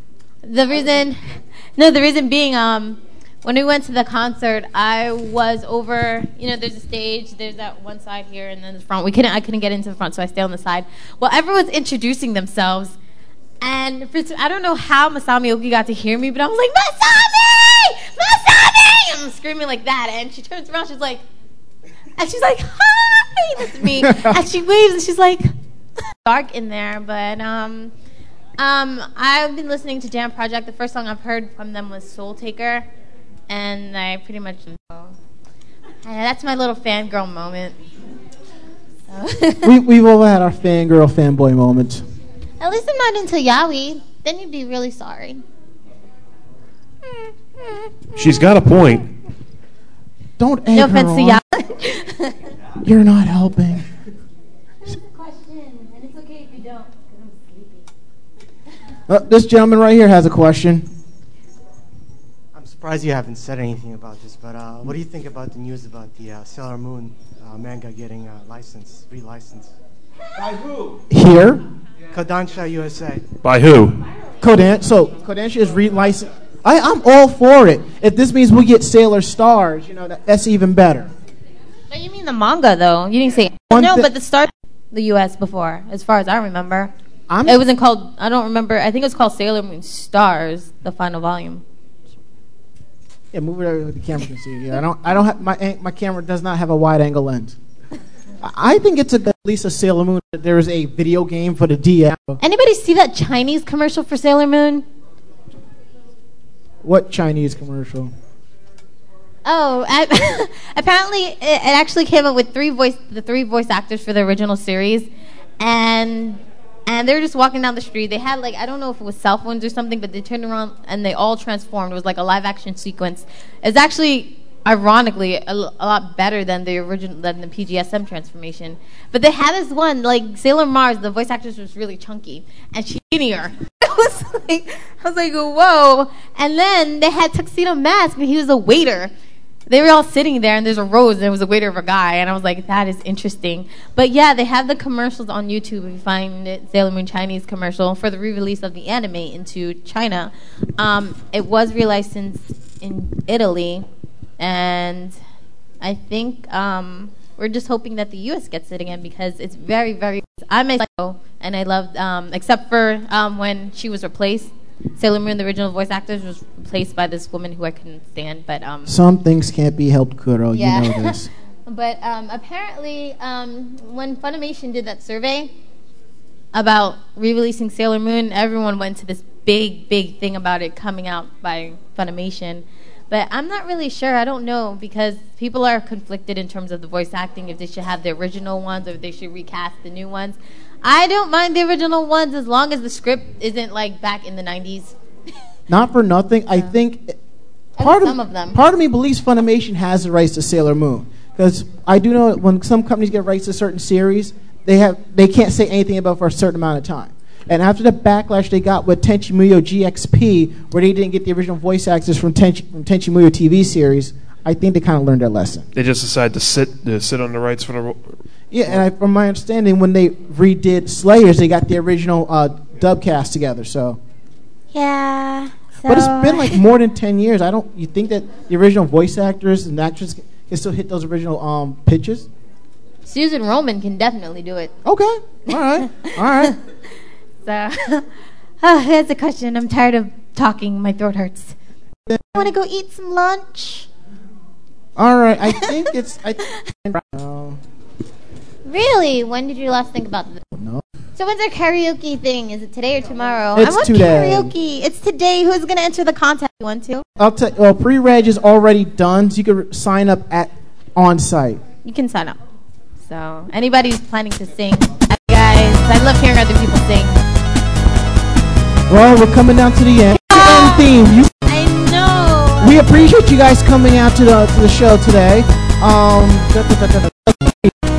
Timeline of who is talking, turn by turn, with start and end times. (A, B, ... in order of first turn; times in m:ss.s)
0:00.4-0:13.0 A
0:13.6-0:21.2 A
0:22.2-0:25.5 A
0:26.1-0:27.9 A
0:28.6-0:32.9 A
0:33.5-0:35.1 A
0:36.0-0:37.8 A
0:39.1-0:39.7 A
0:39.6-0:42.0 B
0:42.6-0:45.4 A
0:47.1-0:47.8 A
0:48.2-0:49.1 C
0:50.4-0:51.4 B
0:50.7-0:52.4 A
0:52.8-0:53.9 B
0:54.8-0:57.8 A
0:59.1-1:00.9 B
1:02.5-1:09.7 D
1:10.9-1:11.6 B
1:12.1-1:13.2 D
1:13.4-1:14.0 C
1:14.4-1:21.1 B
1:21.9-1:26.9 A
1:23.7-1:24.1 B
1:27.3-1:27.6 B
1:27.4-1:31.6 A
1:33.3-1:37.6 B
1:38.4-1:42.4 B
1:42.4-1:44.8 A
1:46.8-1:48.1 B
1:49.4-1:55.1 A
1:55.6-2:19.1 A
2:19.7-2:33.9 A
2:34.4-2:35.1 A
2:35.8-2:48.9 A
2:48.9-2:51.3 B
2:50.5-2:55.5 A
2:56.5-3:15.0 A
3:15.7-3:17.2 B
3:17.8-3:18.6 A
3:17.8-3:35.7 B
3:35.7-3:38.1 C
3:38.5-3:44.0 B
3:44.7-3:46.6 A
3:45.8-3:52.3 B
3:53.0-3:54.7 A
3:54.8-3:56.5 B
3:55.9-3:56.6 A
3:57.4-3:58.1 A
3:58.6-4:01.6 A
4:02.1-4:02.5 B
4:02.3-4:03.9 A
4:05.0-4:07.6 B
4:08.6-4:10.4 A
4:10.6-4:10.8 B
4:11.2-4:17.0 A
4:13.5-4:14.5 B
4:17.2-4:21.6 B
4:21.8-4:22.4 A
4:23.0-4:27.2 A
4:28.9-4:31.4 B
4:30.2-4:32.7 A
4:32.6-4:37.8 B